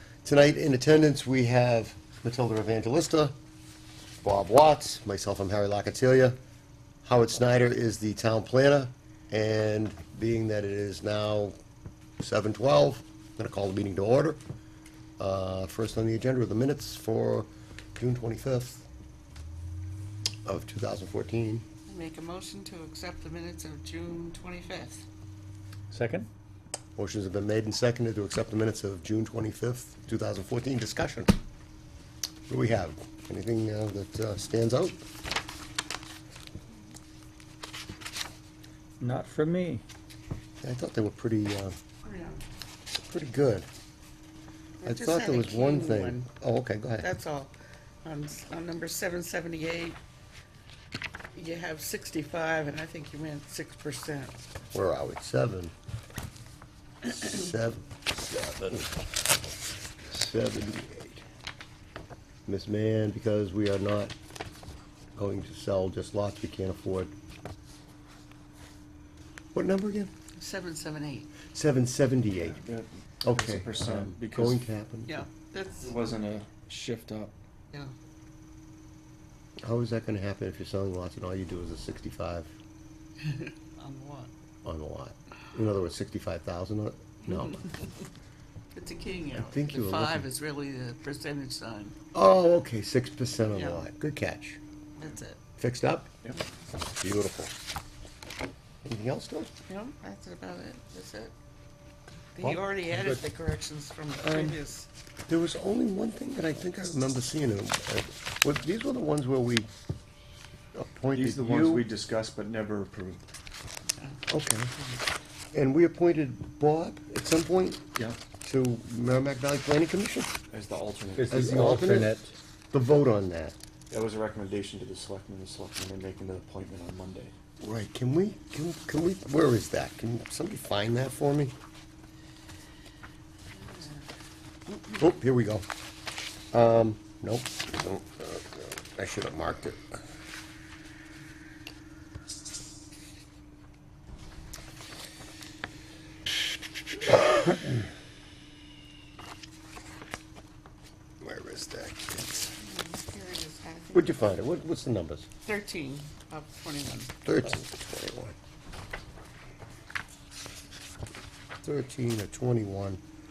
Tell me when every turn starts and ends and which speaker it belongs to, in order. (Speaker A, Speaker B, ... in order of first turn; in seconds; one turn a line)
Speaker A: 0.2-3.4
Speaker A: 4.2-6.4
Speaker A: 7.0-11.6
Speaker A: 12.2-14.4
Speaker A: 15.2-18.9
Speaker A: 20.5-21.6
Speaker B: 21.9-25.1
Speaker C: 25.9-26.3
Speaker A: 27.0-31.4
Speaker A: 32.5-35.0
Speaker C: 39.0-39.8
Speaker A: 40.6-41.8
Speaker B: 42.0-42.4
Speaker A: 42.9-43.7
Speaker B: 44.8-46.3
Speaker A: 44.9-47.1
Speaker B: 47.0-47.5
Speaker B: 48.0-50.0
Speaker B: 51.3-54.4
Speaker A: 54.7-55.7
Speaker A: 57.1-59.0
Speaker A: 60.1-61.2
Speaker A: 62.5-64.1
Speaker A: 65.2-67.1
Speaker A: 69.5-70.1
Speaker B: 70.4-71.3
Speaker A: 71.5-72.6
Speaker D: 72.4-74.6
Speaker A: 73.2-75.2
Speaker B: 75.1-75.9
Speaker D: 75.8-77.4
Speaker A: 79.6-82.5
Speaker B: 83.3-84.3
Speaker A: 84.6-87.6
Speaker B: 87.2-88.0
Speaker B: 88.7-92.0
Speaker A: 89.3-90.3
Speaker A: 92.1-94.6
Speaker B: 93.5-93.9
Speaker B: 95.0-95.4
Speaker A: 95.6-96.2
Speaker A: 97.0-97.5
Speaker A: 98.8-99.5
Speaker B: 99.7-101.3
Speaker B: 102.3-104.9
Speaker C: 102.4-103.2
Speaker A: 104.2-104.6
Speaker A: 105.3-109.7
Speaker A: 110.7-111.8
Speaker D: 111.1-113.2
Speaker A: 114.3-114.7
Speaker B: 114.8-115.0
Speaker A: 115.5-117.8
Speaker A: 118.4-120.3
Speaker D: 120.5-121.6
Speaker C: 121.2-122.3
Speaker A: 121.3-122.2
Speaker A: 122.7-123.5
Speaker D: 123.9-127.3
Speaker A: 127.6-131.6
Speaker B: 133.6-134.0
Speaker A: 134.9-135.7
Speaker A: 136.5-140.0
Speaker A: 151.2-152.5
Speaker B: 152.6-154.3
Speaker A: 153.9-155.3
Speaker B: 155.4-157.1
Speaker A: 157.2-158.4
Speaker A: 161.6-163.0